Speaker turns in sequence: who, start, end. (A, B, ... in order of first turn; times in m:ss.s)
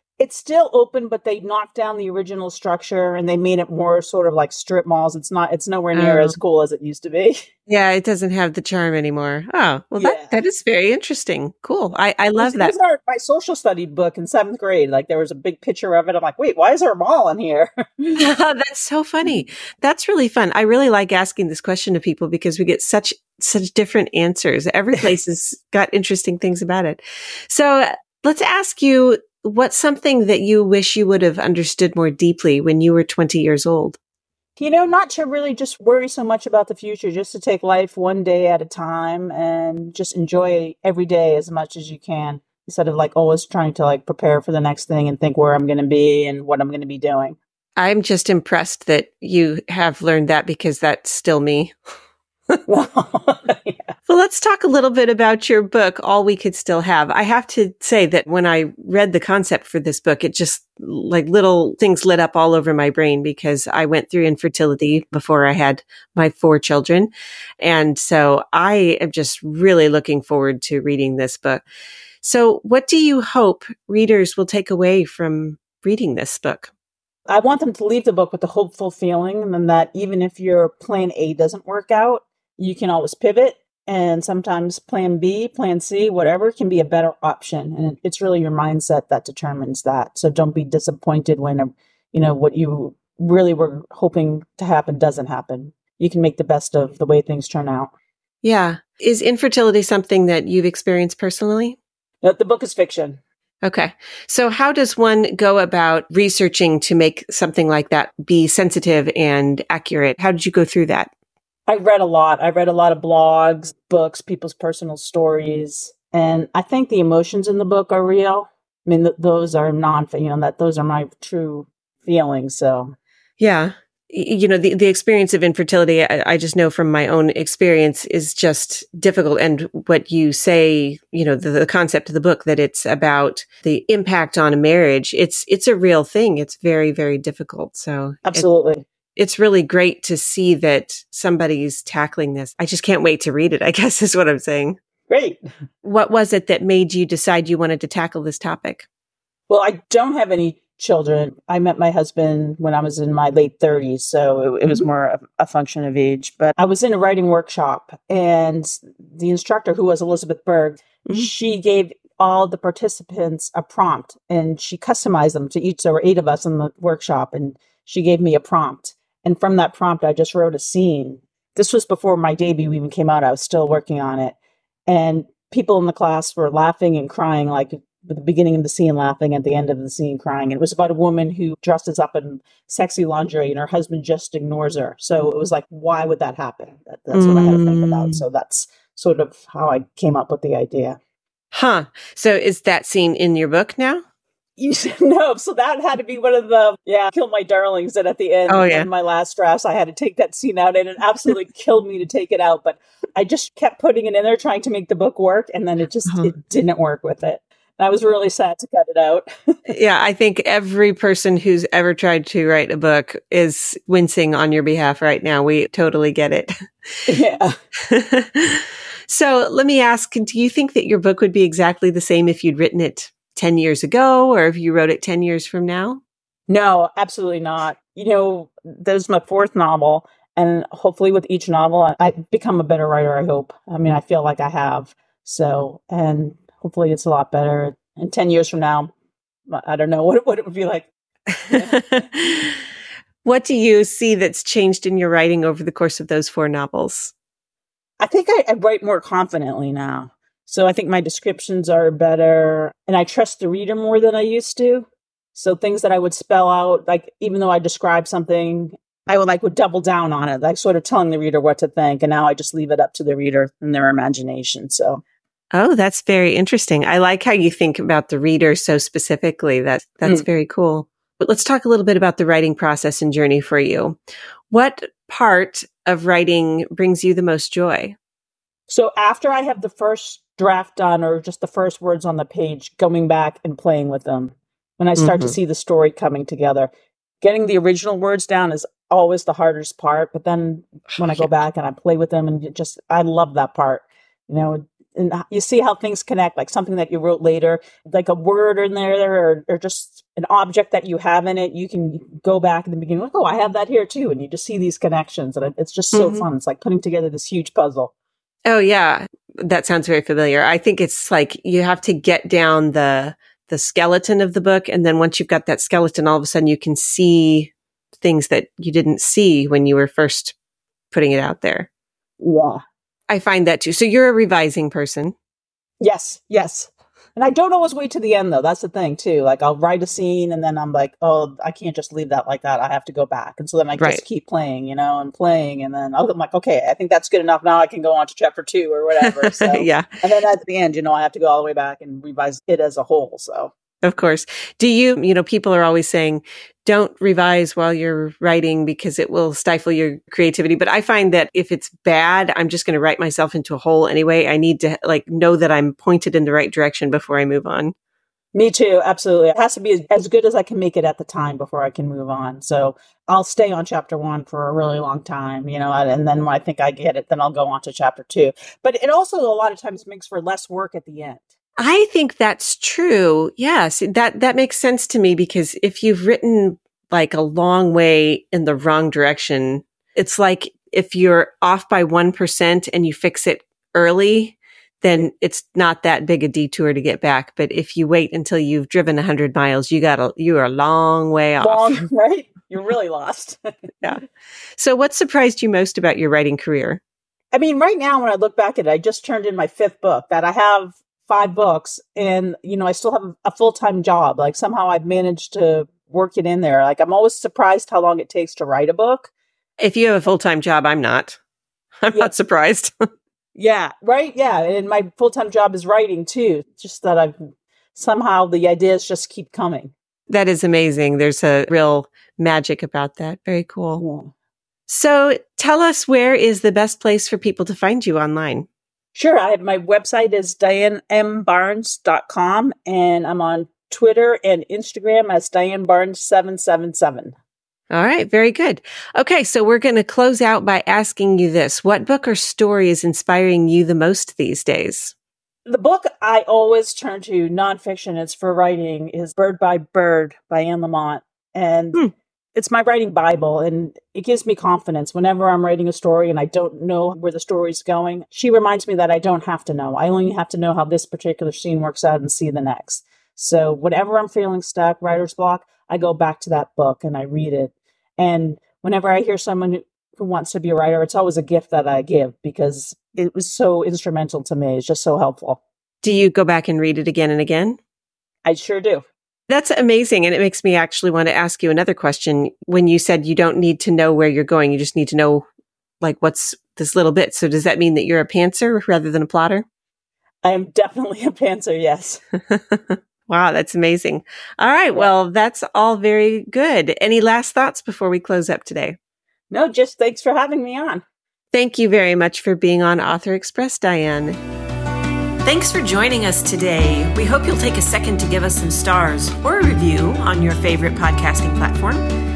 0:00.2-0:07.4 A
0:05.9-0:06.4 B
0:07.7-0:12.7 B
0:10.0-0:10.4 A
0:12.4-0:18.2 A
0:18.2-0:34.0 B
0:34.6-0:47.4 A
0:47.8-0:51.7 B
0:52.7-0:53.9 A
0:54.1-1:11.6 B
1:12.2-1:16.7 B
1:17.3-1:37.9 A
1:38.4-1:41.8 B
1:42.2-1:43.2 A
1:43.6-1:51.1 B
1:51.7-2:02.9 A
2:03.4-2:18.4 B
2:18.3-2:18.8 A
2:19.2-2:24.8 B
2:25.1-2:25.4 A
2:25.8-2:28.9 B
2:29.5-2:54.4 A
2:54.9-3:11.0 A
3:07.1-3:08.2 B
3:11.5-3:14.0 B
3:14.6-3:29.3 A
3:18.5-3:18.9 B
3:26.1-3:26.3 B
3:29.7-3:36.5 B
3:37.1-3:37.5 A
3:37.9-3:46.0 B
3:46.5-3:58.9 A
3:59.5-4:00.9 A
4:01.5-4:02.6 B
4:01.5-4:01.9 A
4:03.2-4:07.1 B
4:08.0-4:25.0 A
4:25.5-4:34.0 B
4:34.5-4:38.0 B
4:38.7-4:46.7 A
4:45.0-4:45.4 B
4:47.2-5:07.9 A
4:51.0-4:51.3 B
5:05.9-5:06.2 B
5:08.4-5:20.3 B
5:20.9-5:21.7 B
5:22.2-5:22.6 A
5:23.1-5:25.1 B
5:25.8-5:43.5 A
5:39.0-5:39.9 B
5:43.8-5:57.7 B
5:58.3-6:11.2 A
6:11.6-6:31.8 B
6:31.4-6:33.4 A
6:34.6-6:36.8 B
6:37.3-6:49.1 A
6:49.6-6:51.2 B
6:51.8-6:52.7 B
6:53.4-6:59.7 A
7:00.1-7:03.8 B
7:03.8-7:04.1 A
7:04.7-7:08.5 B
7:08.9-7:17.1 A
7:17.7-7:24.9 B
7:25.4-7:31.8 A
7:32.3-7:55.4 A
7:55.8-7:57.6 B
7:58.2-7:58.8 A
7:59.3-8:05.2 B
8:05.8-8:09.4 B
8:10.2-8:12.0 A
8:12.3-8:18.8 B
8:19.3-8:20.8 A
8:21.3-8:24.2 B
8:25.2-8:31.8 B